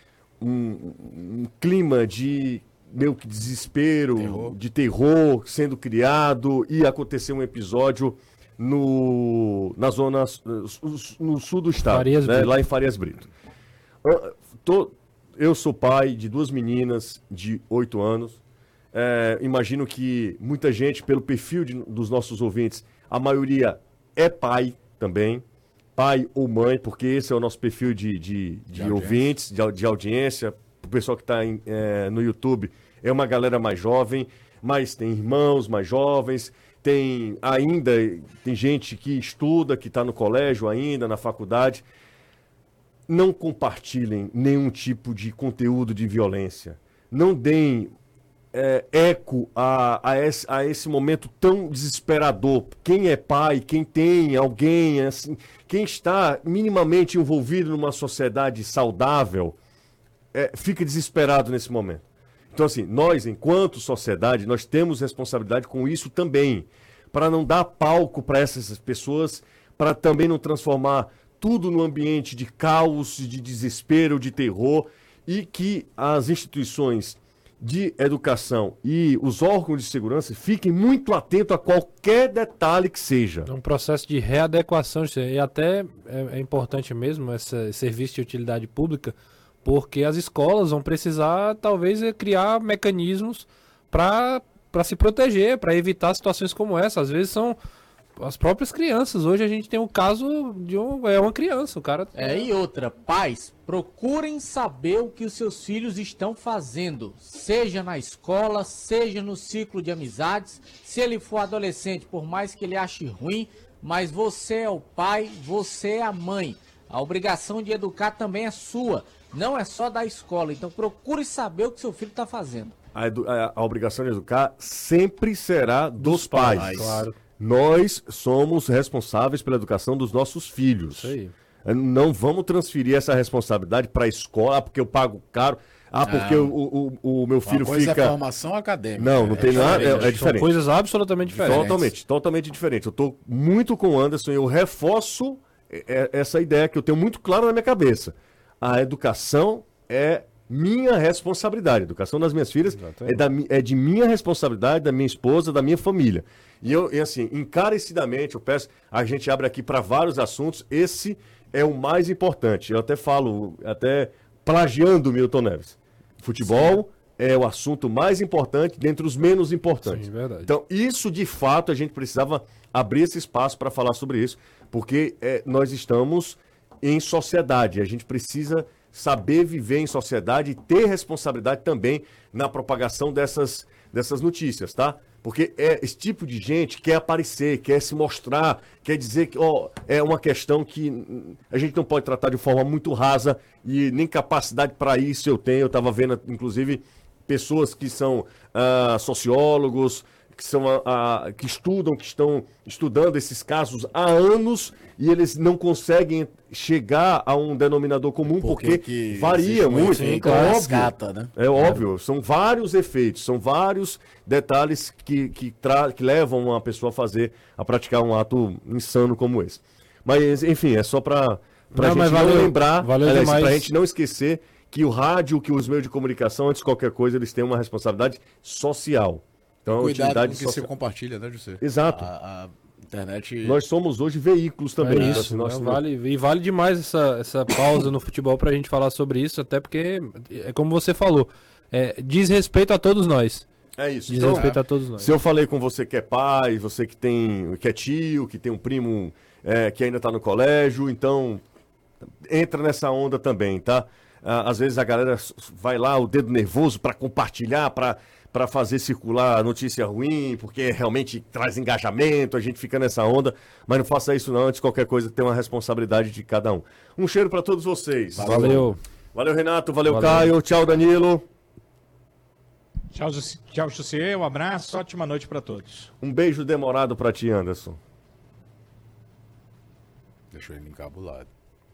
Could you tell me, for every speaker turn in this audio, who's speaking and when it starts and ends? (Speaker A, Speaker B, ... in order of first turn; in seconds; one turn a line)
Speaker A: 0.4-13.3
Speaker B: 4.2-4.6
Speaker C: 11.9-12.6
Speaker A: 14.0-18.4
Speaker A: 18.9-25.4
Speaker A: 25.9-41.9
Speaker B: 28.7-29.2
Speaker A: 43.1-47.9
Speaker A: 48.5-59.6
Speaker A: 60.3-62.0
Speaker A: 62.5-83.5
Speaker C: 83.5-97.6
Speaker C: 98.2-102.5
Speaker D: 102.1-122.8
Speaker A: 123.0-131.1
Speaker C: 126.0-127.1
Speaker B: 126.5-127.1
Speaker C: 130.9-131.3
Speaker A: 131.6-138.2
Speaker B: 136.0-136.6
Speaker B: 137.4-140.4
Speaker A: 139.0-140.5
Speaker C: 139.4-141.7
Speaker B: 141.2-141.9
Speaker A: 141.4-230.7
Speaker C: 152.8-153.1
Speaker C: 169.9-170.5
Speaker B: 208.3-211.3
Speaker C: 210.0-210.7
Speaker C: 221.7-223.7
Speaker B: 229.7-233.6
Speaker A: 231.6-232.1
Speaker A: 233.4-235.8
Speaker C: 234.8-243.4
Speaker A: 243.8-251.4
Speaker C: 244.1-245.1
Speaker A: 252.2-271.2
Speaker B: 268.2-268.7
Speaker C: 268.2-268.8
Speaker C: 269.9-270.3
Speaker E: 272.9-275.9
Speaker A: 276.0-277.8
Speaker B: 280.3-281.3